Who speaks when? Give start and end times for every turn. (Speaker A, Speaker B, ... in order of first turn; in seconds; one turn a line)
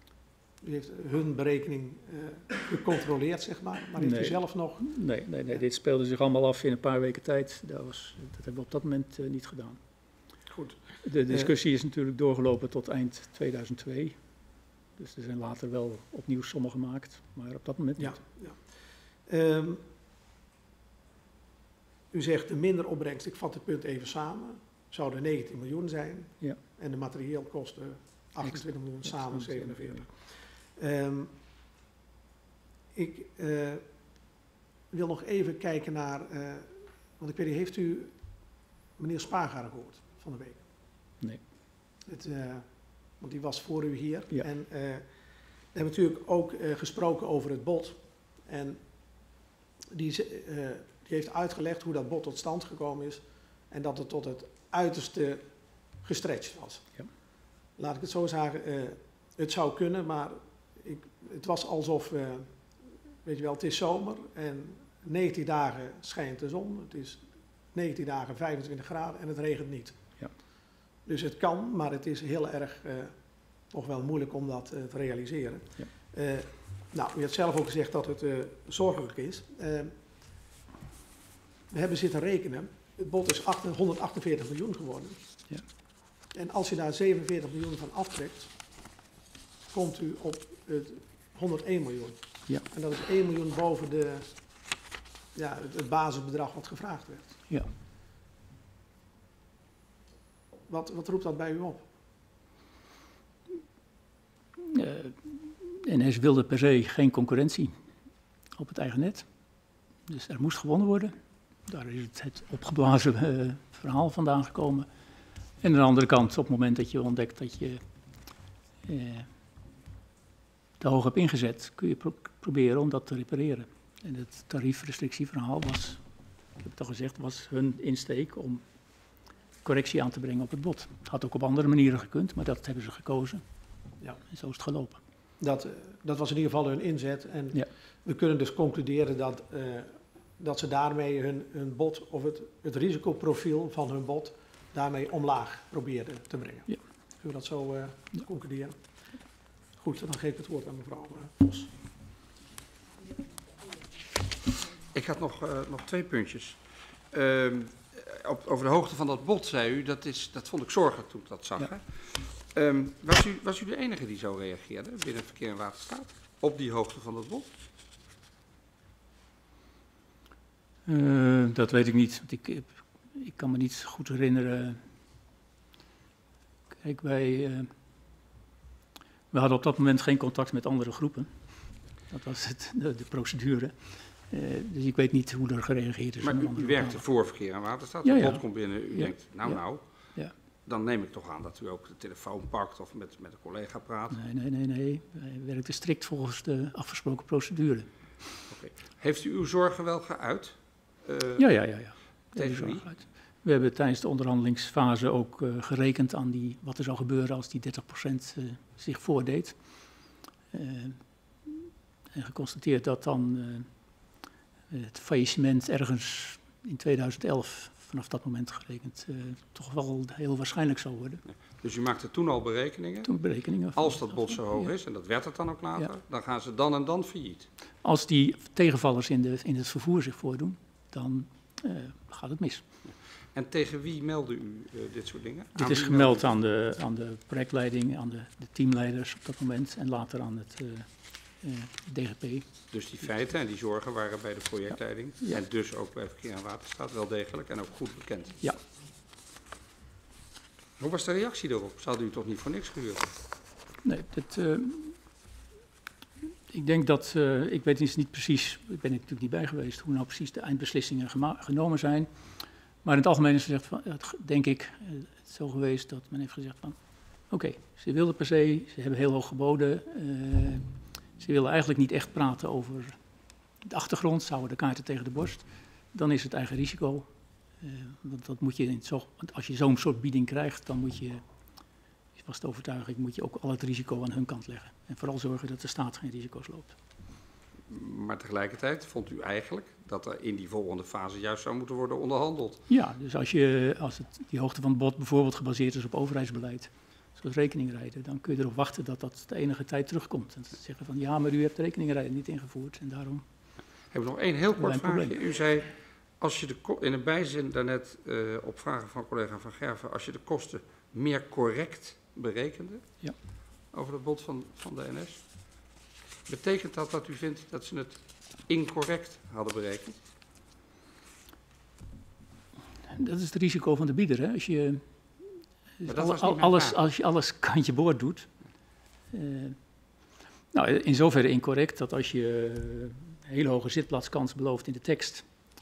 Speaker A: 0.6-4.9
Speaker B: 4.0-9.8
Speaker A: 10.5-11.5
Speaker B: 11.0-14.2
Speaker B: 15.0-18.2
Speaker A: 18.0-18.6
Speaker A: 19.3-19.8
Speaker A: 22.1-31.3
Speaker B: 28.4-30.1
Speaker A: 32.9-33.8
Speaker A: 34.9-38.1
Speaker A: 39.0-40.6
Speaker A: 42.1-42.7
Speaker A: 43.2-45.0
Speaker A: 45.7-48.8
Speaker A: 49.9-55.4
Speaker A: 56.0-56.9
Speaker A: 57.8-62.5
Speaker A: 63.2-70.0
Speaker A: 71.0-73.1
Speaker A: 73.7-79.9
Speaker A: 81.7-85.2
Speaker A: 86.3-88.5
Speaker A: 89.7-94.3
Speaker A: 95.3-97.4
Speaker A: 100.7-101.8
Speaker B: 104.6-107.8
Speaker B: 108.6-109.3
Speaker B: 110.1-111.1
Speaker B: 111.7-114.9
Speaker B: 115.6-117.8
Speaker B: 118.9-119.3
Speaker B: 120.8-126.0
Speaker B: 126.6-128.6
Speaker B: 129.6-133.4
Speaker B: 134.3-135.0
Speaker A: 135.4-148.8
Speaker A: 149.8-151.7
Speaker C: 154.9-167.5
Speaker B: 170.9-174.8
Speaker B: 176.8-177.7
Speaker B: 179.3-181.3
Speaker B: 182.1-187.0
Speaker C: 186.2-189.8
Speaker B: 188.0-189.6
Speaker C: 190.7-194.2
Speaker B: 194.1-197.9
Speaker C: 198.5-201.4
Speaker B: 201.4-209.6
Speaker C: 202.3-202.9
Speaker B: 210.5-213.7
Speaker B: 214.7-221.2
Speaker C: 221.3-223.1
Speaker B: 223.0-224.7
Speaker C: 223.7-227.5
Speaker B: 227.8-232.6
Speaker C: 232.8-236.3
Speaker B: 235.6-242.5
Speaker C: 242.7-248.4
Speaker C: 250.8-253.2
Speaker B: 253.8-255.0
Speaker B: 256.5-262.1
Speaker B: 262.8-266.8
Speaker B: 267.3-270.7
Speaker B: 271.2-273.0
Speaker B: 273.6-277.1
Speaker B: 277.6-281.2
Speaker B: 282.1-286.8
Speaker C: 287.7-292.6
Speaker B: 292.7-303.2
Speaker C: 303.9-312.9
Speaker B: 304.6-305.2
Speaker C: 313.7-315.6
Speaker C: 316.3-320.0
Speaker B: 322.9-324.9
Speaker B: 325.8-328.3
Speaker C: 325.9-326.8
Speaker B: 329.1-329.6
Speaker B: 330.5-335.3